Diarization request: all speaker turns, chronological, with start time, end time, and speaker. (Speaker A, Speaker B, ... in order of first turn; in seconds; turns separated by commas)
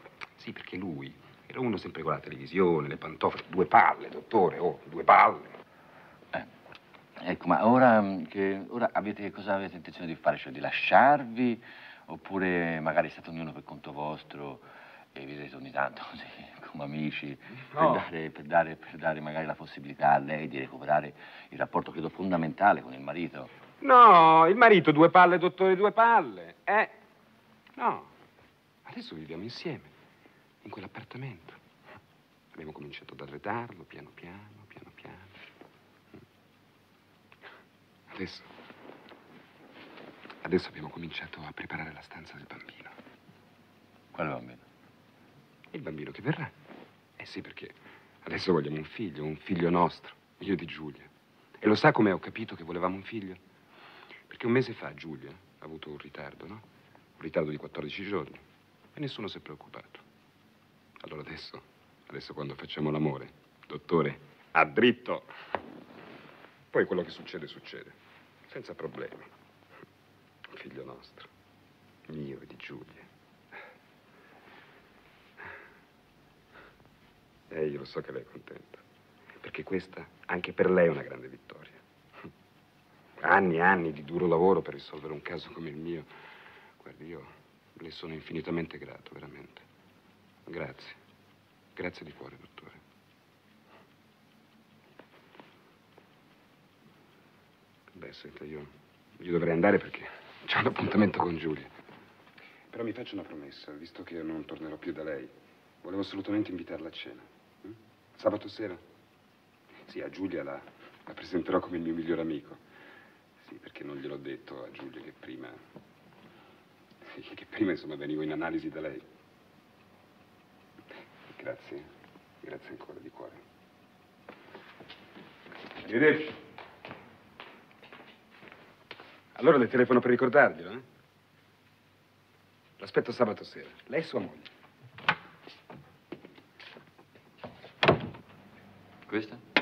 Speaker A: 0.4-5.5, Speaker B: 7.2-23.5, Speaker A: 17.7-18.1, Speaker A: 23.8-26.9, Speaker A: 27.8-28.1, Speaker A: 28.9-29.9, Speaker A: 30.6-31.6, Speaker A: 32.5-35.4, Speaker A: 38.1-38.5, Speaker A: 40.4-42.9, Speaker B: 44.1-44.6, Speaker A: 45.7-46.5, Speaker A: 47.2-51.1, Speaker A: 51.6-53.4, Speaker A: 54.3-56.6, Speaker A: 57.2-58.4, Speaker A: 59.0-60.0, Speaker A: 61.0-65.3, Speaker A: 66.7-68.0, Speaker A: 68.5-69.3, Speaker A: 70.5-71.3, Speaker A: 72.1-73.1, Speaker A: 77.5-78.8, Speaker A: 79.4-81.8, Speaker A: 83.2-86.1, Speaker A: 86.8-89.7, Speaker A: 90.5-91.0, Speaker A: 91.8-92.8, Speaker A: 97.9-101.7, Speaker A: 102.7-105.3, Speaker A: 105.8-108.8, Speaker A: 109.9-112.6, Speaker A: 113.4-115.6, Speaker A: 117.1-119.0, Speaker A: 121.3-121.9, Speaker A: 122.4-123.4, Speaker A: 125.8-126.4, Speaker A: 129.4-130.8, Speaker A: 132.8-134.5, Speaker B: 139.1-139.4